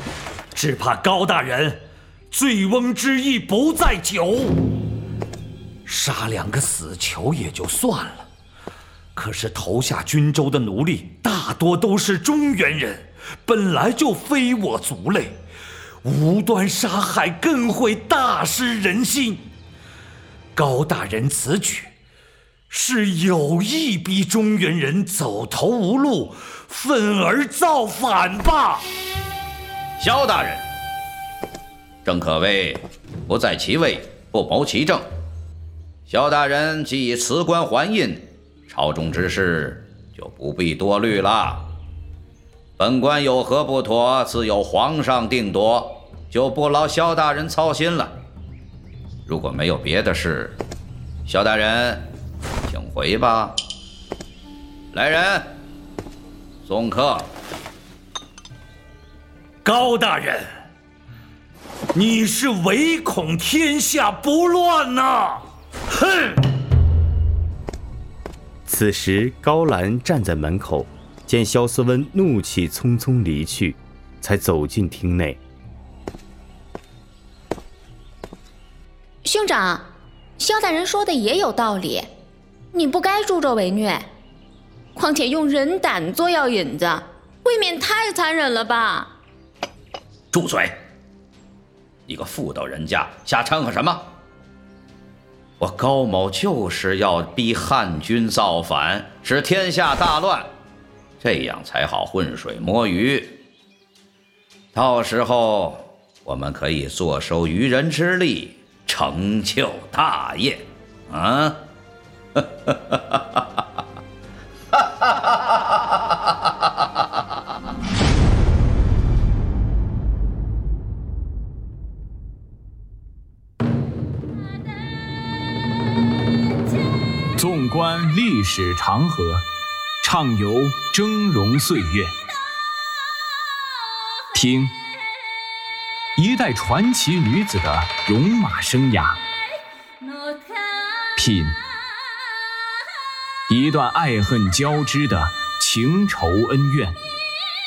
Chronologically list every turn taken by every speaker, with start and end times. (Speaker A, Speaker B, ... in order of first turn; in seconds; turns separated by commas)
Speaker A: 0.5-4.5, Speaker A: 5.8-8.3, Speaker A: 9.1-15.4, Speaker A: 16.0-19.4, Speaker A: 20.5-21.9, Speaker A: 22.7-28.8, Speaker B: 30.0-30.6, Speaker B: 32.0-35.0, Speaker B: 36.1-41.6, Speaker B: 42.8-48.1, Speaker B: 49.2-50.6, Speaker B: 51.2-52.1, Speaker B: 52.7-53.6, Speaker B: 54.9-55.5, Speaker B: 56.6-57.3, Speaker A: 59.6-60.4, Speaker A: 61.9-65.4, Speaker A: 66.0-66.4, Speaker C: 68.7-75.4, Speaker D: 79.2-79.8, Speaker D: 80.4-82.1, Speaker D: 82.7-84.0, Speaker D: 85.0-89.1, Speaker B: 90.3-90.8, Speaker B: 92.1-94.1, Speaker B: 95.6-100.5, Speaker B: 101.2-103.4, Speaker B: 104.7-111.6, Speaker B: 112.4-113.4, Speaker E: 127.4-129.4, Speaker E: 130.0-132.1, Speaker E: 134.3-134.7, Speaker E: 136.2-139.2, Speaker E: 141.2-141.6, Speaker E: 143.5-147.0